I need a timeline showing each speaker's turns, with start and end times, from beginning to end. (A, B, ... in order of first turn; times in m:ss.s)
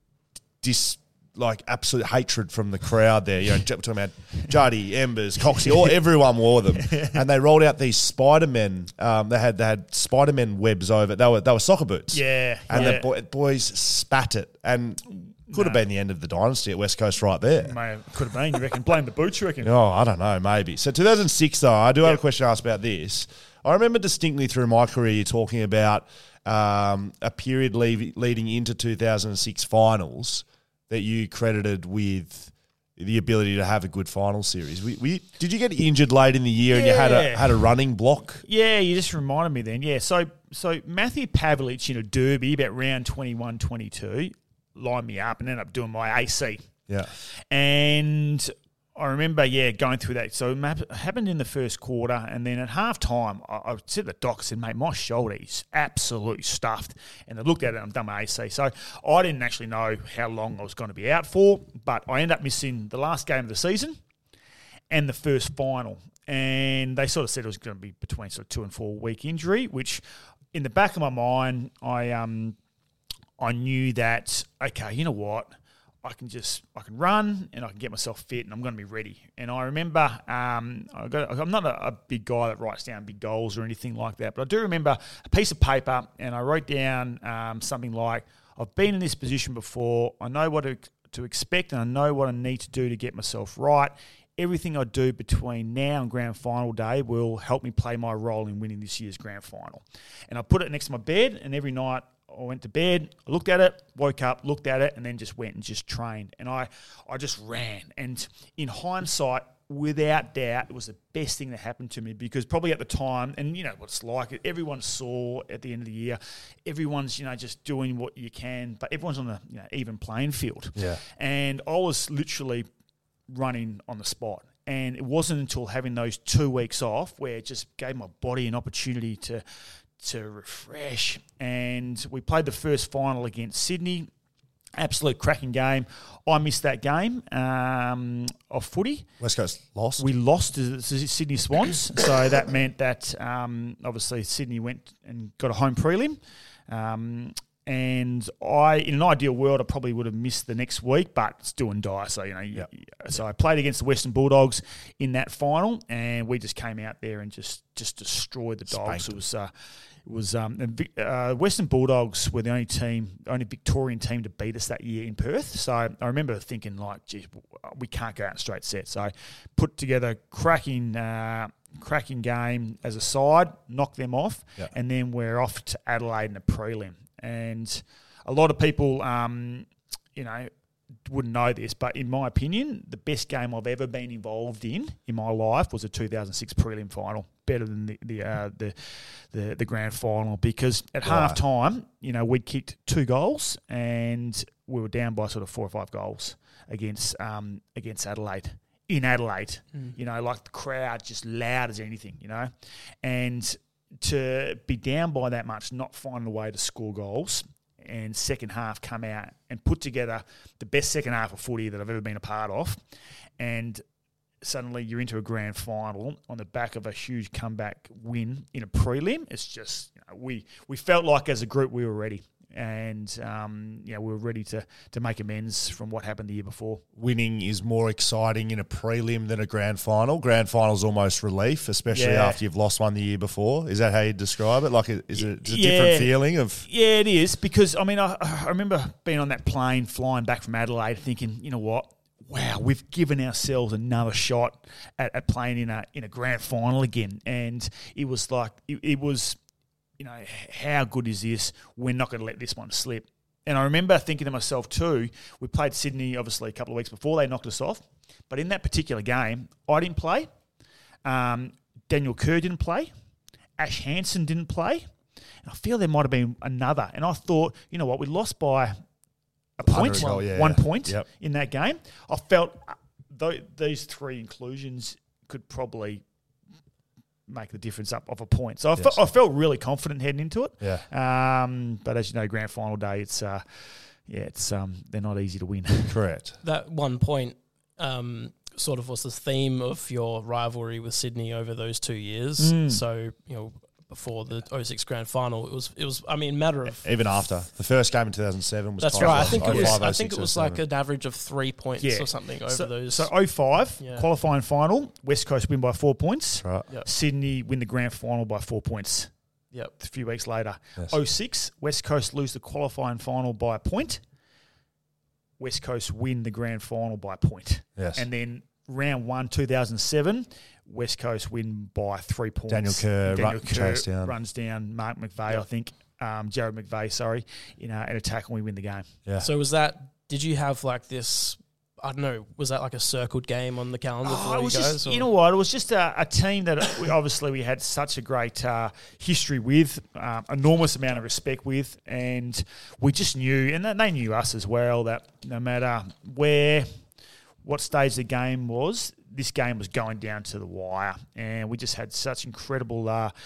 0:00.6-0:17.8 A
0:06.8-0:07.2 B
0:12.1-0:13.1 B
0:15.5-0:15.8 B
0:17.6-0:19.7 B
0:19.6-0:38.4 A
0:36.7-0:37.7 B
0:38.4-0:46.7 B
0:47.5-1:04.0 B
1:04.9-1:10.0 B
1:10.5-1:12.6 B
1:13.4-1:15.5 B
1:16.0-2:02.7 B
2:00.8-2:01.0 A
2:03.3-2:09.4 B
2:10.0-2:14.1 B
2:14.8-2:19.1 B
2:19.2-2:20.1 A
2:20.0-2:39.5 B
2:38.7-2:39.2 A
2:40.0-3:00.5 B
3:01.1-3:22.5 B
3:11.0-3:11.4 A
3:23.0-3:32.8 B
3:33.4-3:33.8 B
3:34.4-3:46.8 B
3:47.0-3:56.7 A
3:51.9-3:52.4 B
3:55.2-4:09.4 B
4:10.0-4:20.3 B
4:21.0-4:22.9 B
4:23.6-4:24.8 B
4:25.4-4:28.8 B
4:29.6-4:36.0 B
4:29.6-4:31.1 A
4:37.3-4:46.0 B
4:45.9-4:46.4 A
4:46.4-4:56.8 C
4:52.4-4:52.8 B
4:56.8-5:00.6 A
4:58.8-5:03.1 C
4:59.0-4:59.8 B
5:01.8-5:09.1 B
5:03.8-5:04.1 C
5:09.8-5:14.0 B
5:15.4-5:28.9 B
5:17.8-5:18.0 A
5:22.5-5:24.2 A
5:29.2-5:35.1 C
5:34.0-5:46.7 B
5:47.4-5:53.1 B